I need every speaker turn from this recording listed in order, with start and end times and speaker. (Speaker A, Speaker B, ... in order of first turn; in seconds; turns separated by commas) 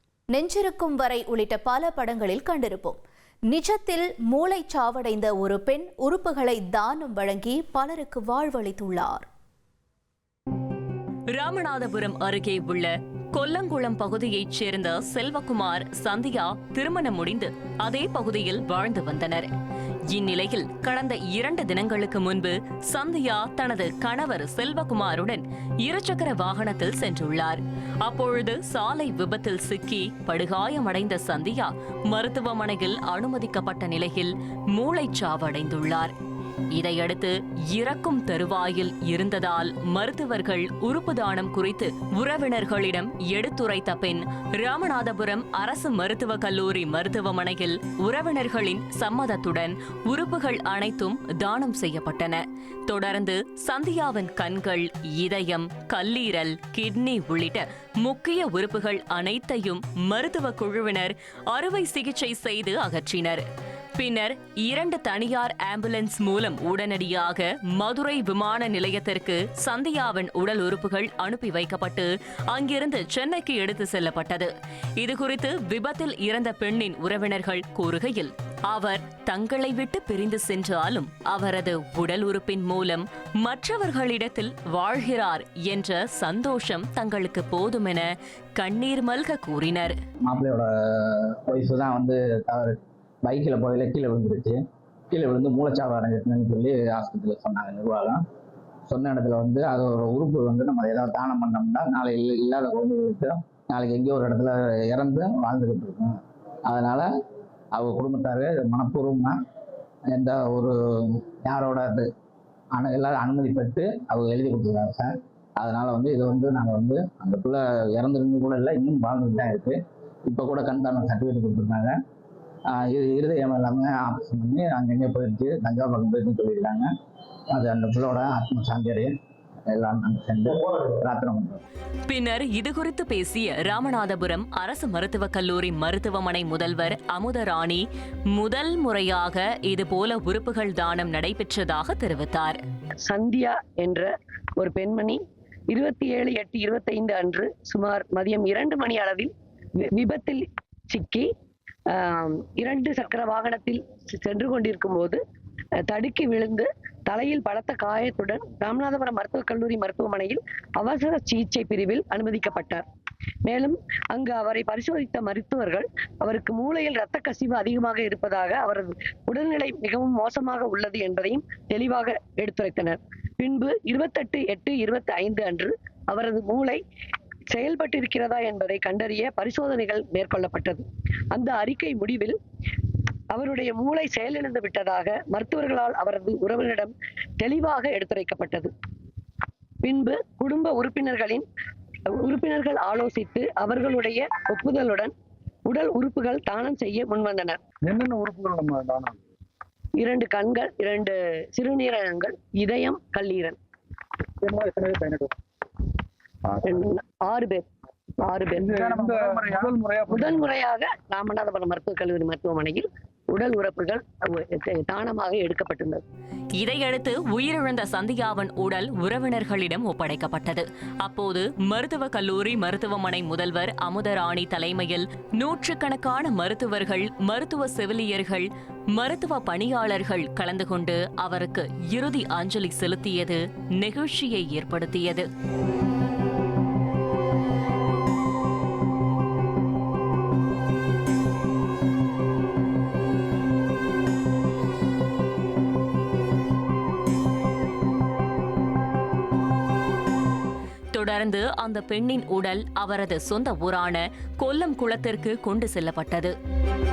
Speaker A: 0.3-3.0, Speaker A: 3.5-9.3, Speaker B: 11.3-19.5, Speaker B: 20.1-36.1, Speaker B: 36.7-63.4, Speaker B: 64.0-88.1, Speaker B: 88.6-90.0, Speaker C: 90.2-94.6, Speaker C: 95.1-98.2, Speaker C: 98.9-107.1, Speaker C: 107.7-109.4, Speaker C: 110.1-112.1, Speaker C: 112.7-122.0, Speaker C: 122.7-126.9, Speaker C: 127.5-129.1, Speaker C: 129.7-131.6, Speaker B: 132.1-142.6, Speaker D: 143.1-145.2, Speaker D: 145.7-149.3, Speaker D: 149.9-151.3, Speaker D: 151.9-155.2, Speaker D: 155.9-162.8, Speaker D: 163.4-176.8, Speaker D: 177.5-182.3, Speaker D: 183.3-188.7, Speaker D: 189.8-191.4, Speaker D: 192.2-195.1, Speaker D: 195.7-197.6, Speaker E: 197.8-199.2, Speaker D: 200.0-203.6, Speaker E: 204.4-205.3, Speaker D: 206.6-207.6, Speaker D: 208.2-209.3, Speaker E: 208.5-210.5, Speaker D: 210.1-216.0, Speaker B: 216.5-235.3, Speaker B: 250.9-256.3